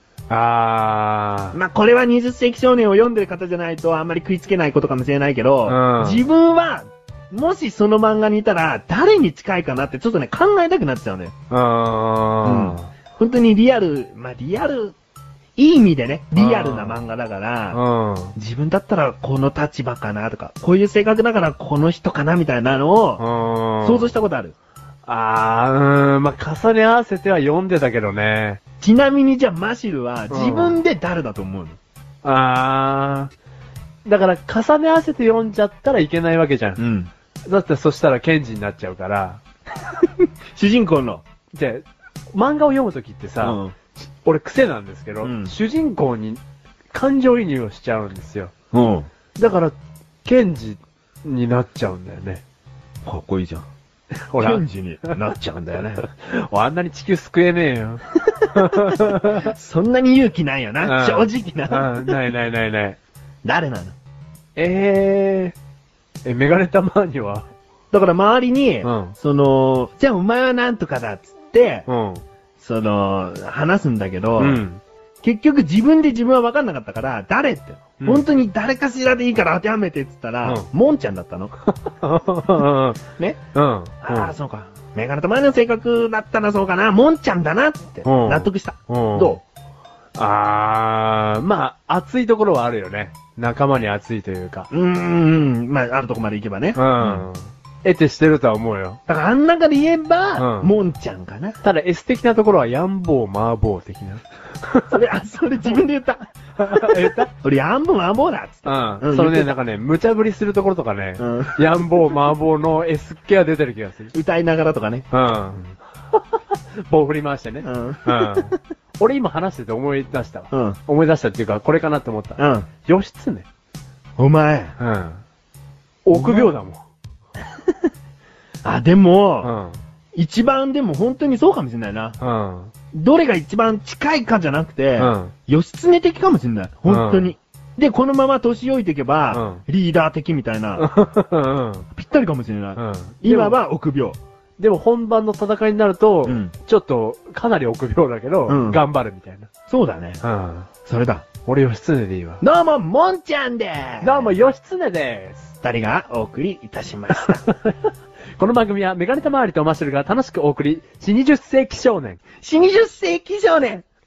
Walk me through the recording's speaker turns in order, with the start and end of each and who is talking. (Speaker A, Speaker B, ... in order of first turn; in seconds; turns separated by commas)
Speaker A: 0.3-1.6, Speaker B: 1.5-11.3, Speaker A: 5.7-6.2, Speaker A: 11.5-12.9, Speaker B: 12.4-15.0, Speaker B: 15.6-17.8, Speaker A: 16.4-17.0, Speaker A: 17.7-18.4, Speaker B: 18.4-23.2, Speaker A: 23.2-24.1, Speaker B: 23.8-24.5, Speaker A: 25.1-28.6, Speaker B: 28.8-31.8, Speaker A: 30.3-30.8, Speaker A: 32.2-33.3, Speaker A: 34.1-36.8, Speaker B: 36.8-37.1, Speaker A: 37.5-39.4, Speaker B: 40.0-41.2, Speaker A: 41.5-46.4, Speaker B: 43.4-43.8, Speaker B: 45.2-45.5, Speaker A: 46.9-48.5, Speaker B: 48.7-49.1, Speaker A: 49.4-49.7, Speaker A: 50.2-52.4, Speaker B: 53.0-53.7, Speaker A: 54.3-55.2, Speaker B: 54.4-56.0, Speaker A: 56.0-59.5, Speaker B: 58.6-62.2, Speaker A: 60.8-63.0, Speaker B: 63.4-63.9, Speaker A: 64.6-65.6, Speaker A: 66.2-67.5, Speaker B: 67.9-71.9, Speaker A: 68.8-69.1, Speaker A: 71.9-72.2, Speaker B: 72.6-74.6, Speaker A: 74.4-74.8, Speaker B: 75.2-81.5, Speaker A: 78.0-78.3, Speaker A: 81.9-83.0, Speaker A: 83.5-84.3, Speaker B: 84.0-89.4, Speaker A: 88.0-89.4, Speaker A: 90.2-94.7, Speaker B: 94.7-97.3, Speaker A: 96.8-99.0, Speaker B: 99.1-101.6, Speaker A: 100.4-100.7, Speaker A: 101.6-105.0, Speaker B: 104.9-106.3, Speaker A: 106.6-107.3, Speaker B: 107.3-109.5, Speaker A: 108.7-114.1, Speaker B: 111.2-111.6, Speaker B: 114.1-115.1, Speaker A: 115.1-123.5, Speaker B: 117.6-118.6, Speaker B: 120.5-120.8, Speaker B: 122.4-122.7, Speaker B: 124.2-124.8, Speaker A: 124.8-125.2, Speaker A: 126.1-126.8, Speaker B: 126.1-126.5, Speaker B: 128.6-129.5, Speaker A: 129.4-129.8, Speaker B: 130.2-132.2, Speaker A: 132.2-132.7, Speaker B: 132.9-140.9, Speaker A: 135.0-135.3, Speaker A: 136.9-137.3, Speaker A: 139.3-139.6, Speaker A: 140.8-141.9, Speaker B: 141.9-144.2, Speaker A: 142.8-143.6, Speaker A: 144.6-149.5, Speaker B: 146.3-146.5, Speaker B: 148.5-148.8, Speaker B: 149.7-150.2, Speaker A: 150.2-150.7, Speaker B: 150.9-151.3, Speaker A: 151.5-152.4, Speaker B: 152.4-154.4, Speaker A: 154.0-155.5, Speaker B: 155.6-157.4, Speaker A: 157.1-162.2, Speaker B: 162.4-163.9